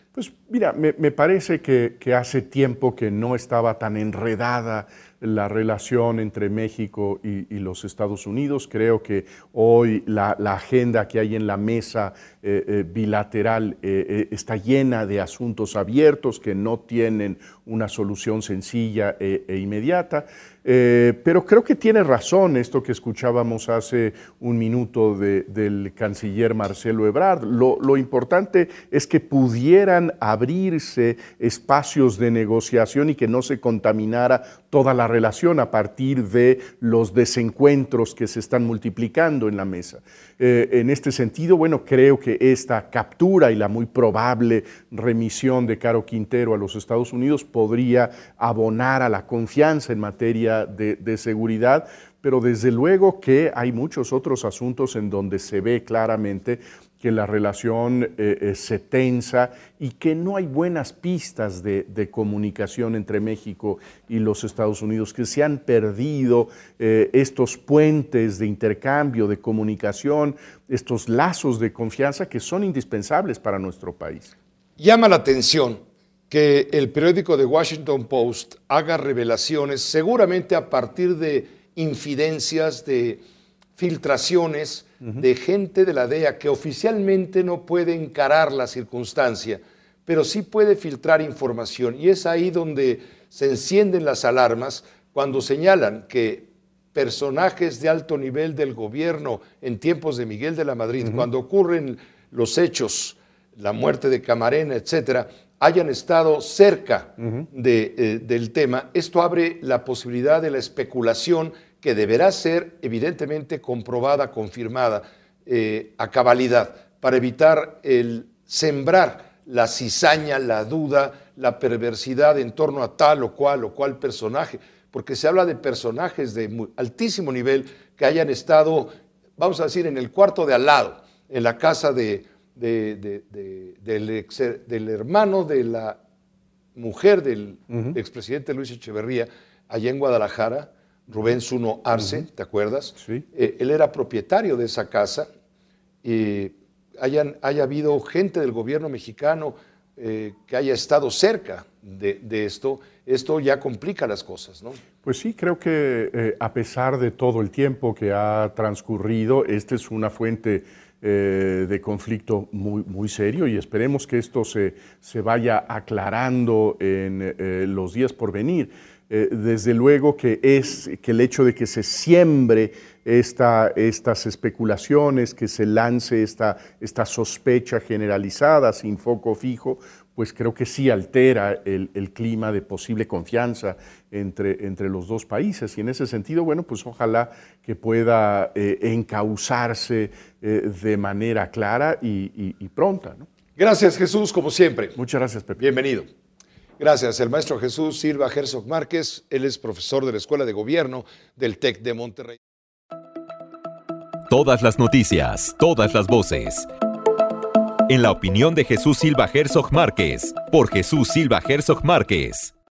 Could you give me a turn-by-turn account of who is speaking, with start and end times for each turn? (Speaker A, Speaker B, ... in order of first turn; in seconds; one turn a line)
Speaker A: 0.1-74.3
Speaker B: 74.8-83.2
Speaker B: 83.8-136.0
Speaker A: 101.0-101.3
Speaker B: 136.7-145.3
Speaker A: 137.7-138.0
Speaker A: 141.9-142.2
Speaker B: 146.0-154.8
Speaker A: 155.0-193.3
Speaker B: 193.6-195.0
Speaker A: 194.9-195.6
Speaker B: 195.6-196.1
Speaker B: 196.8-202.4
Speaker C: 204.3-206.7
Speaker C: 207.9-212.5